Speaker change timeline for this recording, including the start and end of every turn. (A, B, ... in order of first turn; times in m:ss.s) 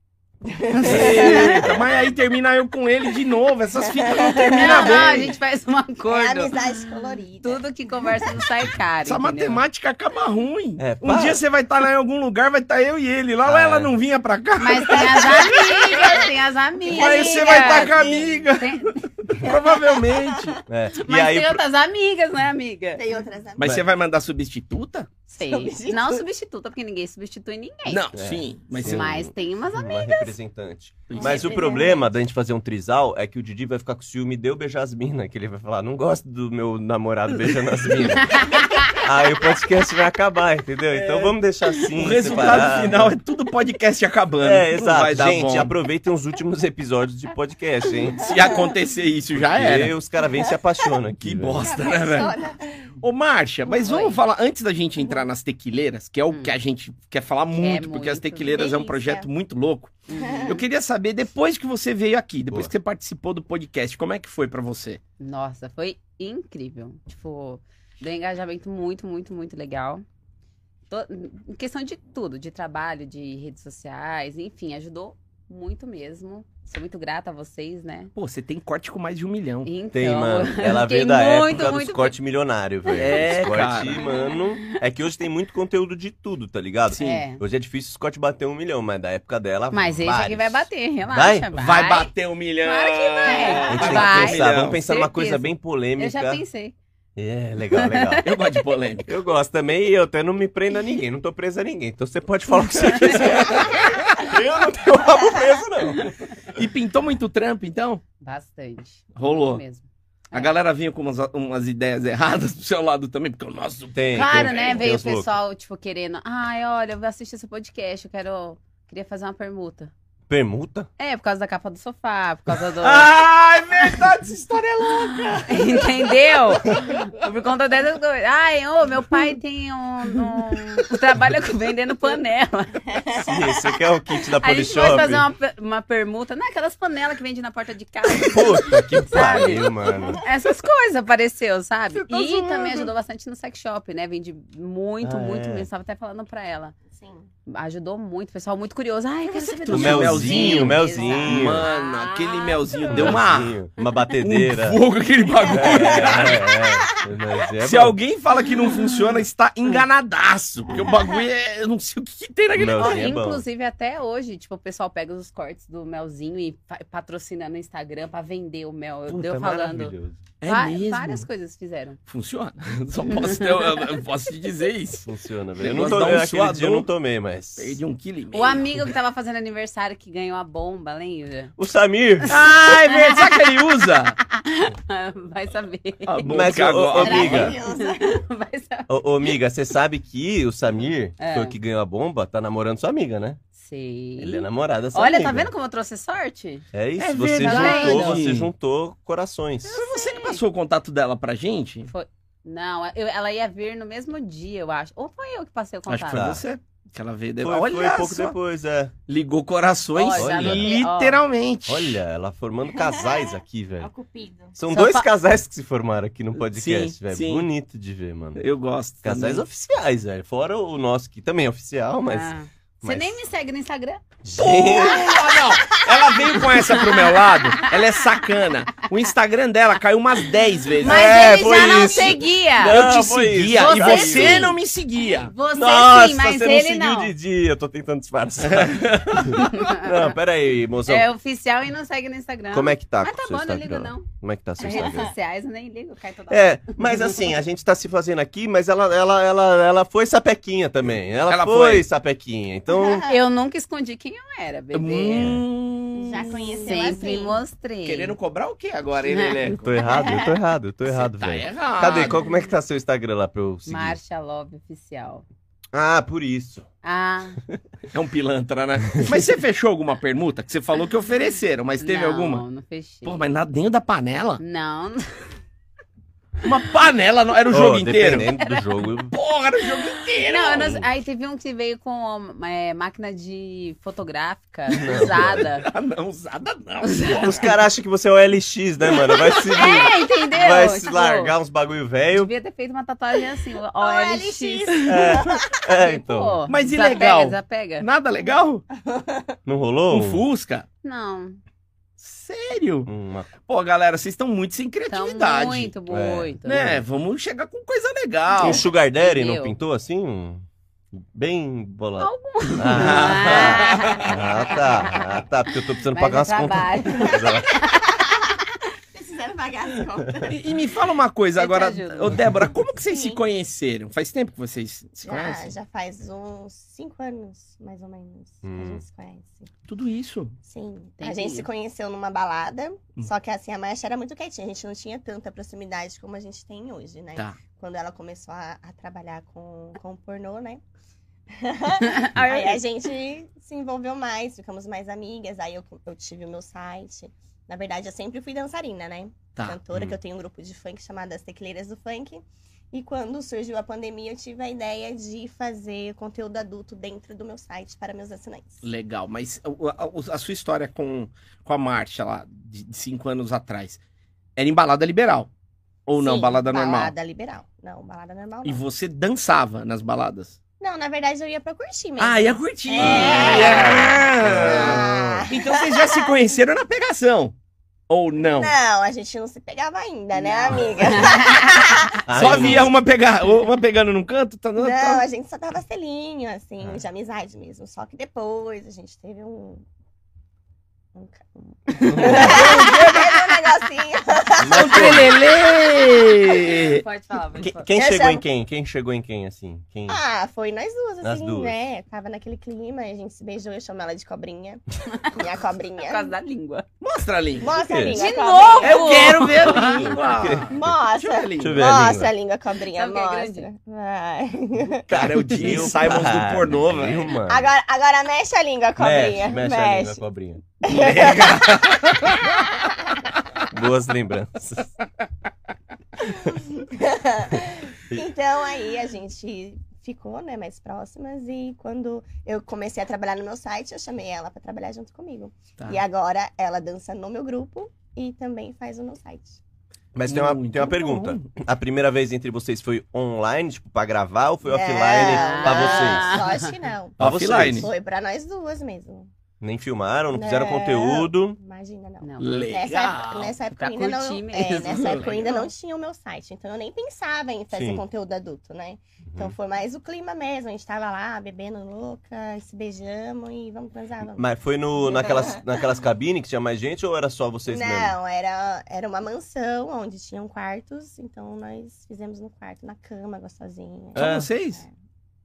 0:00.4-0:01.6 A
0:00.7-0:01.6 B
0:00.8-0:05.3 C
0:00.8-0:01.6 D
0:03.9-0:05.2 A
0:04.4-0:06.6 B
0:06.1-0:08.4 A
0:07.4-0:09.6 B
0:09.0-0:16.2 C
0:10.8-0:11.4 D
0:13.4-0:13.9 D
0:14.6-0:19.5 B
0:15.2-0:16.3 A
0:16.8-0:18.3 A
0:16.9-0:20.6 C
0:19.4-0:20.4 A
0:20.7-0:21.6 D
0:20.9-0:23.0 B
0:23.0-0:23.8 A
0:23.6-0:25.1 C
0:25.3-0:28.1 B
0:25.4-0:26.2 A
0:27.8-0:29.1 C
0:28.1-0:43.2 D
0:28.7-0:30.3 B
0:31.1-0:31.7 C
0:31.1-0:32.0 A
0:38.3-0:38.9 B
0:41.0-0:41.3 C
0:41.9-0:45.7 C
0:44.4-0:48.4 D
0:48.2-0:49.9 C
0:49.4-0:51.7 D
0:51.2-0:52.3 C
0:51.6-0:52.9 A
0:53.0-1:05.0 C
0:53.8-0:54.1 A
0:53.9-0:54.1 B
0:57.6-0:58.7 B
0:58.5-0:59.3 A
1:00.1-1:00.5 B
1:00.1-1:00.6 A
1:05.2-1:10.0 B
1:10.9-1:18.1 B
1:18.1-1:19.7 C
1:19.6-1:22.1 B
1:19.9-1:31.5 D
1:22.9-1:24.8 B
1:23.0-1:24.0 C
1:26.9-1:27.2 C
1:27.0-1:27.4 B
1:29.7-1:32.1 B
1:31.6-1:34.8 C
1:32.6-1:36.7 B
1:33.7-1:36.4 D
1:37.2-1:38.2 D
1:37.7-1:38.6 B
1:38.2-1:39.1 C
1:39.1-1:46.2 D
1:43.0-1:43.3 B
1:43.2-1:44.0 C
1:46.5-1:48.0 C
1:48.2-1:50.5 B
1:49.2-1:49.6 C
1:50.3-1:54.8 C
1:53.9-1:55.3 D
1:54.1-1:59.9 B
2:00.3-2:00.9 D
2:01.0-2:03.1 B
2:02.8-2:07.0 C
2:05.4-2:12.8 B
2:12.9-2:13.7 A
2:13.2-2:15.3 D
2:14.4-2:19.7 B
2:18.2-2:20.2 D
2:20.2-2:26.7 B
2:21.9-2:22.9 C
2:25.0-2:25.7 D
2:26.9-2:27.3 A
2:27.5-2:33.2 B
2:29.3-2:33.6 C
2:29.7-2:31.7 D
2:32.9-2:34.8 D
2:34.2-2:36.5 C
2:35.5-2:37.1 A
2:35.5-2:38.0 D
2:37.6-2:43.1 C
2:40.7-2:41.2 A
2:42.5-2:43.4 D
2:42.8-2:49.9 B
2:49.1-2:50.2 D
2:50.4-2:51.2 C
2:50.4-2:52.0 B
2:52.1-2:55.1 C
2:53.2-2:53.8 B
2:55.0-2:57.8 D
2:55.6-2:56.9 C
2:57.6-2:58.8 C
2:58.3-3:01.5 B
3:01.6-3:02.3 D
3:02.2-3:03.4 B
3:02.3-3:04.2 C
3:04.3-3:06.3 B
3:06.0-3:07.5 C
3:06.2-3:07.6 D
3:07.0-3:08.2 A
3:07.3-3:09.3 B
3:08.9-3:13.4 D
3:11.2-3:11.5 B
3:13.6-3:16.6 B
3:14.2-3:15.5 D
3:16.7-3:19.8 D
3:17.0-3:18.5 C
3:17.4-3:18.2 B
3:19.6-3:21.9 C
3:19.8-3:20.4 B
3:21.9-3:26.3 B
3:25.9-3:28.4 C
3:26.1-3:26.4 D
3:27.4-3:28.9 D
3:29.1-3:32.0 C
3:29.9-3:31.2 B
3:30.1-3:30.7 D
3:31.7-3:33.9 D
3:32.7-3:34.5 A
3:34.6-3:38.4 D
3:34.7-3:35.1 B
3:36.4-3:37.5 C
3:38.4-3:39.4 C
3:39.0-3:43.2 D
3:42.0-3:44.0 B
3:44.2-3:45.3 D
3:44.3-3:51.3 C
3:46.8-3:47.1 B
3:50.8-3:54.6 B
3:50.8-3:54.6 D
3:52.6-3:55.3 C
3:55.2-3:57.1 B
3:55.5-4:01.1 D
3:58.4-3:59.4 C
3:59.4-4:00.0 B
4:00.8-4:04.1 B
4:02.5-4:05.1 D
4:04.6-4:07.2 B
4:04.6-4:05.1 A
4:06.3-4:13.1 D
4:11.3-4:11.9 C
4:12.7-4:13.2 A
4:13.1-4:15.3 B
4:14.7-4:17.0 C
4:15.1-4:15.4 D
4:15.9-4:17.4 A
4:16.6-4:18.1 B
4:17.8-4:19.7 C
4:19.1-4:19.5 B
4:19.6-4:24.0 D
4:19.8-4:20.3 A
4:20.9-4:22.2 C
4:23.6-4:25.2 B
4:25.7-4:26.6 D
4:26.8-4:27.4 B
4:27.9-4:32.4 C
4:31.8-4:33.2 B
4:33.0-4:34.4 C
4:34.4-4:35.3 B
4:36.4-4:38.3 C
4:37.5-4:39.1 D
4:38.3-4:38.7 B
4:39.1-4:40.7 C
4:39.7-4:45.7 B
4:40.5-4:40.8 D
4:44.7-4:45.5 D
4:45.0-4:47.4 C
4:46.8-4:47.3 B
4:47.2-4:52.3 D
4:49.1-4:49.4 C
4:49.5-4:51.3 B
4:52.1-4:55.0 B
4:53.8-4:55.6 A
4:54.8-4:56.4 D
4:55.8-4:57.8 B
4:56.5-4:58.6 C
4:58.7-4:59.4 A
4:59.4-5:00.2 D
4:59.9-5:00.6 C
5:00.8-5:01.4 B
5:02.0-5:02.9 C
5:02.9-5:03.3 D
5:03.5-5:05.7 C
5:04.9-5:06.7 B
5:05.9-5:06.8 D
5:06.4-5:08.6 C
5:08.4-5:17.6 D
5:09.0-5:09.5 B
5:12.0-5:15.1 B
5:12.7-5:14.5 C
5:15.8-5:17.9 B
5:17.0-5:20.4 A
5:20.2-5:25.5 C
5:21.4-5:22.2 B
5:22.8-5:23.2 A
5:25.0-5:29.5 A
5:28.4-5:28.8 D
5:29.7-5:30.4 C
5:30.4-5:40.6 A
5:31.0-5:31.5 B
5:41.3-5:58.6 A
5:41.8-5:42.6 B
5:58.6-6:03.8 C
6:04.4-6:05.3 C
6:05.9-6:06.9 C
6:06.0-6:08.6 A
6:08.4-6:10.4 C
6:10.6-6:16.2 A
6:12.0-6:17.3 C
6:12.8-6:15.3 D
6:17.9-6:18.5 C
6:18.4-6:22.2 A
6:20.6-6:21.6 B
6:22.0-6:22.7 D
6:22.1-6:25.0 C
6:24.6-6:29.6 A
6:30.9-6:35.1 A
6:31.8-6:32.5 D
6:31.9-6:33.2 C
6:34.4-6:35.2 D
6:34.4-6:36.8 C
6:36.3-6:37.7 B
6:37.4-6:40.0 D
6:37.7-6:38.2 A
6:39.9-6:46.1 A
6:41.0-6:41.5 D
6:45.8-6:46.6 B
6:46.8-6:47.5 C
6:47.4-6:49.8 A
6:47.6-6:48.1 D
6:47.9-6:50.0 B
6:48.6-6:51.6 C
6:49.5-6:50.8 D
6:50.5-6:54.9 A
6:51.4-6:52.1 D
6:52.6-6:53.5 B
6:54.9-6:57.5 D
6:54.9-6:57.1 C
6:57.2-7:00.0 A
6:58.8-7:00.4 D
7:00.6-7:03.1 A
7:00.7-7:02.4 C
7:03.5-7:04.7 D
7:06.0-7:19.4 A
7:19.9-7:26.2 D
7:20.0-7:21.3 C
7:24.4-7:29.1 A
7:24.9-7:26.5 B
7:27.0-7:27.7 D
7:27.0-7:27.7 C
7:29.4-7:31.4 D
7:30.1-7:45.6 A
7:32.0-7:32.4 B
7:32.2-7:33.4 C
7:33.5-7:35.5 B
7:34.7-7:35.1 C
7:37.5-7:37.8 D
7:39.1-7:39.3 D
7:44.2-7:47.9 D
7:47.5-7:54.7 A
7:53.9-7:54.3 D
7:54.0-7:54.6 C